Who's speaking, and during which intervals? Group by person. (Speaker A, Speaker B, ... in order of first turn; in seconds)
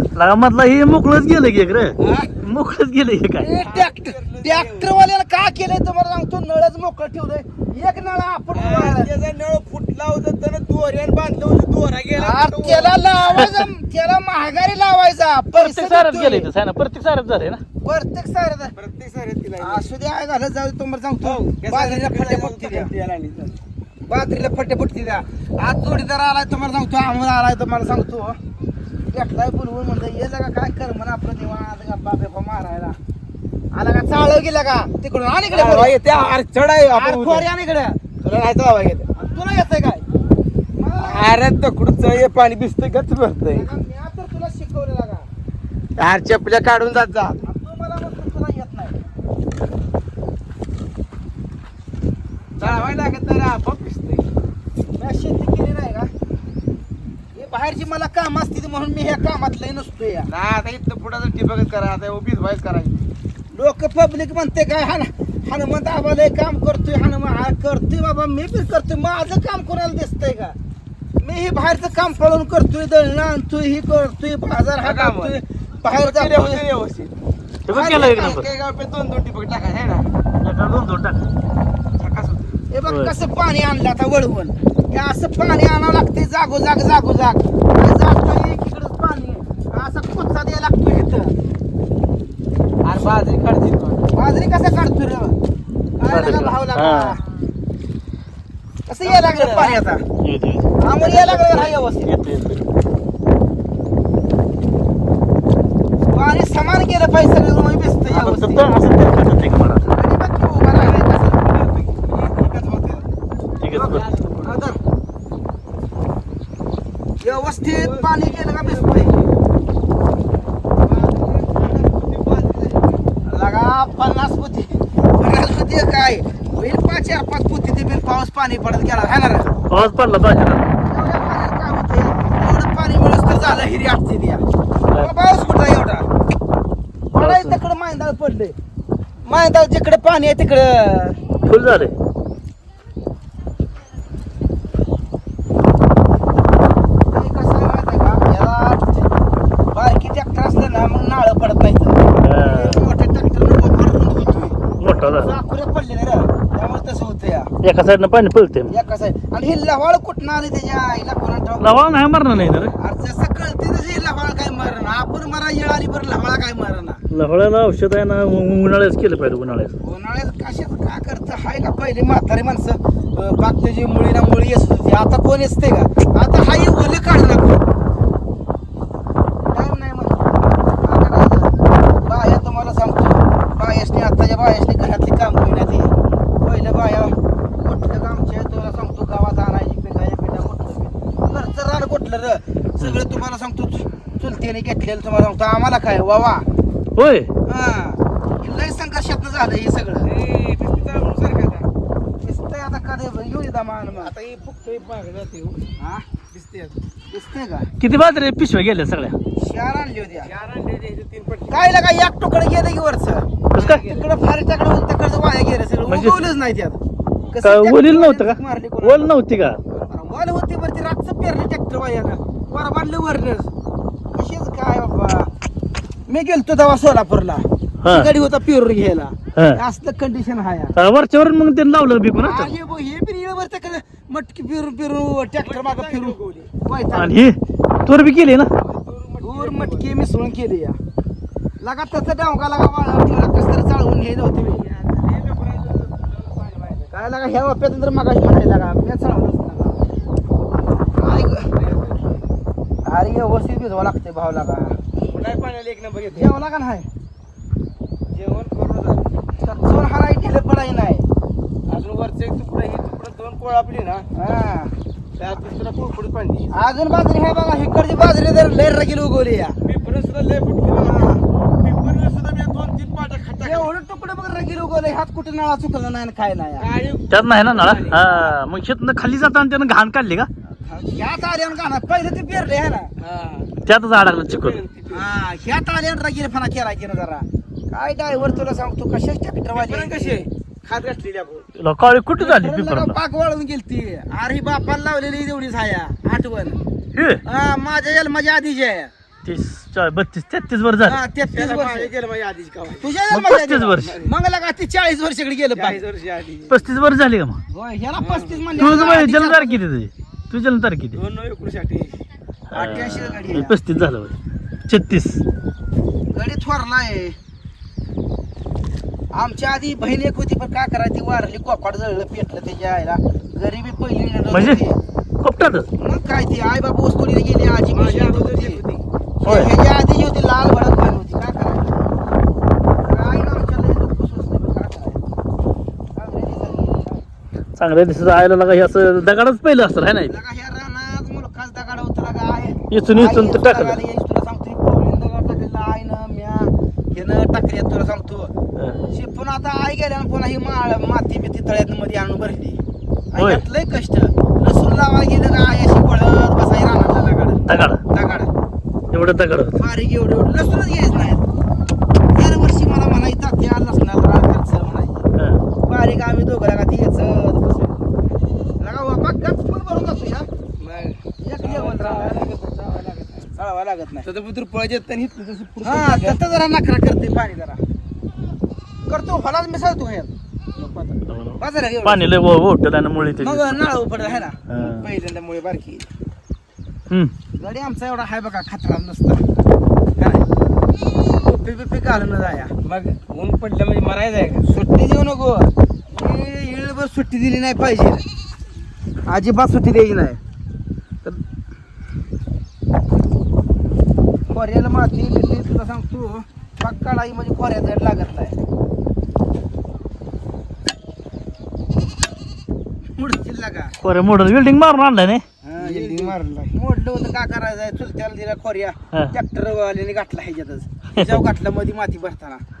Speaker A: 0.1-3.5, 13.3-13.7, 15.6-17.6, 77.7-78.5, 80.4-81.2, 82.9-83.1, 96.1-97.2, 100.2-100.7, 102.0-102.6, 108.1-109.9, 113.6-114.0, 129.7-130.7, 137.2-137.6, 141.4-141.9, 152.2-152.8, 154.8-155.3, 157.6-158.7, 161.6-162.7, 167.1-169.7, 196.9-197.3, 207.8-209.2, 213.5-213.8, 215.9-216.2, 217.4-219.6, 227.8-228.1, 229.3-229.6, 230.8-232.5, 236.9-238.5, 277.1-280.3, 283.6-284.6, 288.1-288.4, 291.5-293.0, 296.9-297.2, 299.2-301.0, 303.1-304.0, 306.5-307.4, 308.6-311.0, 312.5-314.1, 314.7-315.2, 324.3-324.6, 325.2-325.7, 329.2-329.5, 337.6-340.1, 342.7-343.8, 348.6-348.8, 353.2-353.4, 357.5-357.8, 358.9-359.6, 381.1-383.6, 384.5-384.9, 413.8-415.2
Speaker B: 2.0-2.3, 3.6-4.9, 8.5-12.9, 18.7-19.9, 21.2-23.6, 35.5-37.5, 38.2-39.1, 41.0-43.7, 46.0-47.4, 52.6-54.2, 60.3-63.0, 74.8-75.3, 75.9-77.1, 77.9-80.1, 82.0-82.6, 92.8-94.1, 99.0-99.8, 101.0-101.8, 111.4-113.1, 113.7-114.6, 117.2-119.5, 120.8-123.0, 200.0-201.7, 204.0-205.7, 206.3-206.8, 210.2-211.6, 213.6-214.1, 235.4-236.5, 238.6-239.8, 244.4-246.9, 251.5-252.2, 255.1-256.3, 258.1-259.1, 261.7-264.1, 265.2-266.5, 269.6-273.7, 276.6-278.4, 283.0-283.5, 284.1-285.1, 289.5-291.5, 301.2-302.9, 303.8-304.1, 305.5-306.6, 308.0-308.9, 310.9-312.0, 327.7-328.9, 370.6-373.3, 374.0-376.2, 380.6-381.0, 384.0-384.3, 392.6-394.4, 415.6-416.4
Speaker C: 3.4-9.1, 12.2-16.5, 17.8-18.7, 19.6-22.9, 24.0-28.4, 29.1-33.0, 33.7-35.9, 36.9-38.0, 39.1-40.0, 40.8-41.3, 43.5-45.3, 47.4-49.0, 52.6-52.9, 54.9-56.1, 57.3-60.3, 63.5-70.5, 71.2-76.6, 77.7-78.4, 82.7-91.3, 94.1-95.3, 96.0-97.2, 98.9-100.0, 100.8-102.1, 106.1-108.7, 109.9-111.5, 114.4-114.8, 117.2-119.1, 123.2-129.6, 130.8-136.1, 137.1-138.5, 139.2-141.2, 147.1-149.0, 149.7-154.6, 155.1-157.5, 158.7-161.9, 162.8-167.0, 169.8-177.6, 179.4-196.4, 197.4-200.1, 202.2-204.1, 205.8-206.1, 207.1-207.7, 209.3-210.3, 211.5-216.8, 217.3-219.1, 219.8-223.5, 224.1-225.3, 226.1-230.8, 232.2-237.3, 239.2-240.8, 241.6-244.7, 246.9-249.8, 251.0-251.5, 252.8-254.8, 256.1-256.9, 259.4-261.1, 264.1-264.7, 266.5-269.6, 270.8-271.2, 273.4-276.7, 280.6-282.9, 284.9-290.2, 292.2-296.6, 297.2-298.9, 300.8-301.9, 302.8-305.8, 307.5-309.6, 312.5-313.6, 316.1-317.1, 319.1-324.8, 325.8-328.6, 329.2-331.8, 332.8-335.0, 335.9-337.0, 340.1-348.3, 348.9-352.6, 353.1-358.3, 359.6-361.2, 362.1-365.1, 365.6-367.8, 368.6-370.3, 371.2-372.3, 373.3-374.1, 375.6-377.6, 378.9-380.1, 381.4-382.1, 383.2-385.8, 387.3-389.2, 390.0-390.2, 391.1-392.5, 394.4-398.0, 399.1-400.2, 404.3-408.4, 412.9-413.8, 415.4-422.4